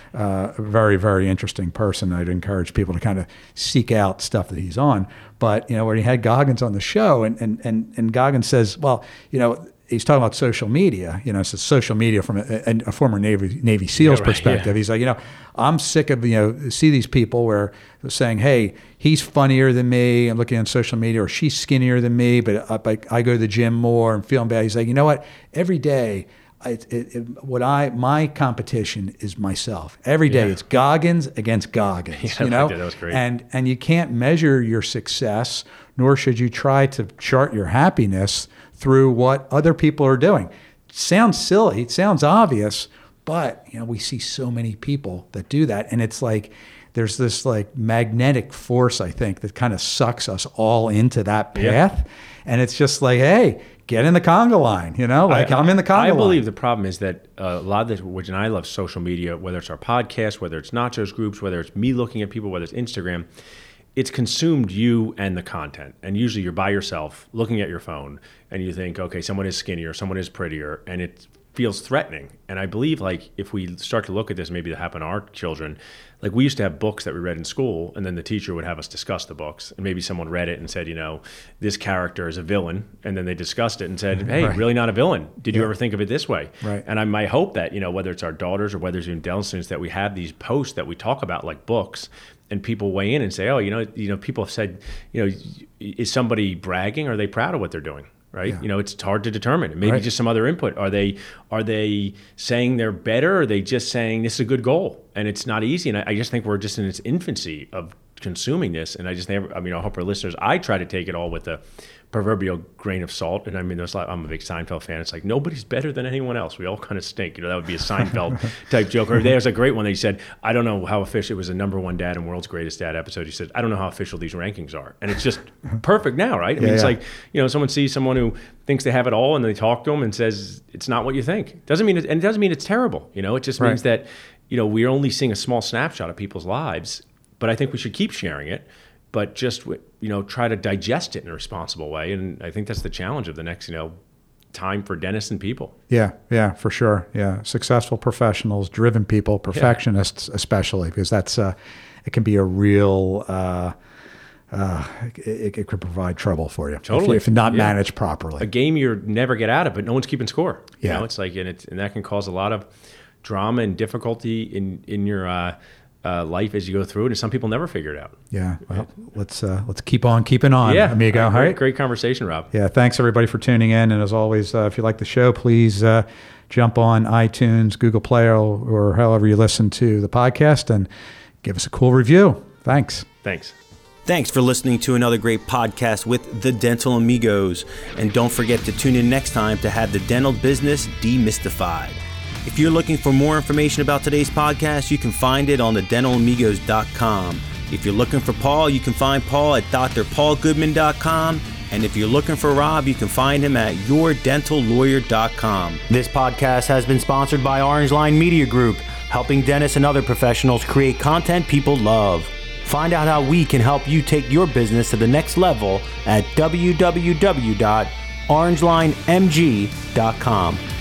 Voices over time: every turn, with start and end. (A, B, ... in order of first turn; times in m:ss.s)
0:00.1-0:56.4 A
0:14.0-0:14.7 B
0:32.2-0:33.2 B
0:55.3-1:03.3 B
1:04.0-2:24.0 B
2:06.6-2:07.0 A
2:24.5-2:25.8 B
2:25.9-2:33.8 A
2:34.5-2:38.5 A
2:36.9-2:37.8 B
2:38.4-2:42.7 B
2:40.8-2:41.1 A
2:43.2-2:48.2 B
2:48.3-2:51.6 A
2:50.6-2:52.5 B
2:52.5-3:00.9 A
3:01.4-3:03.1 A
3:03.2-3:03.6 B
3:04.1-3:40.6 C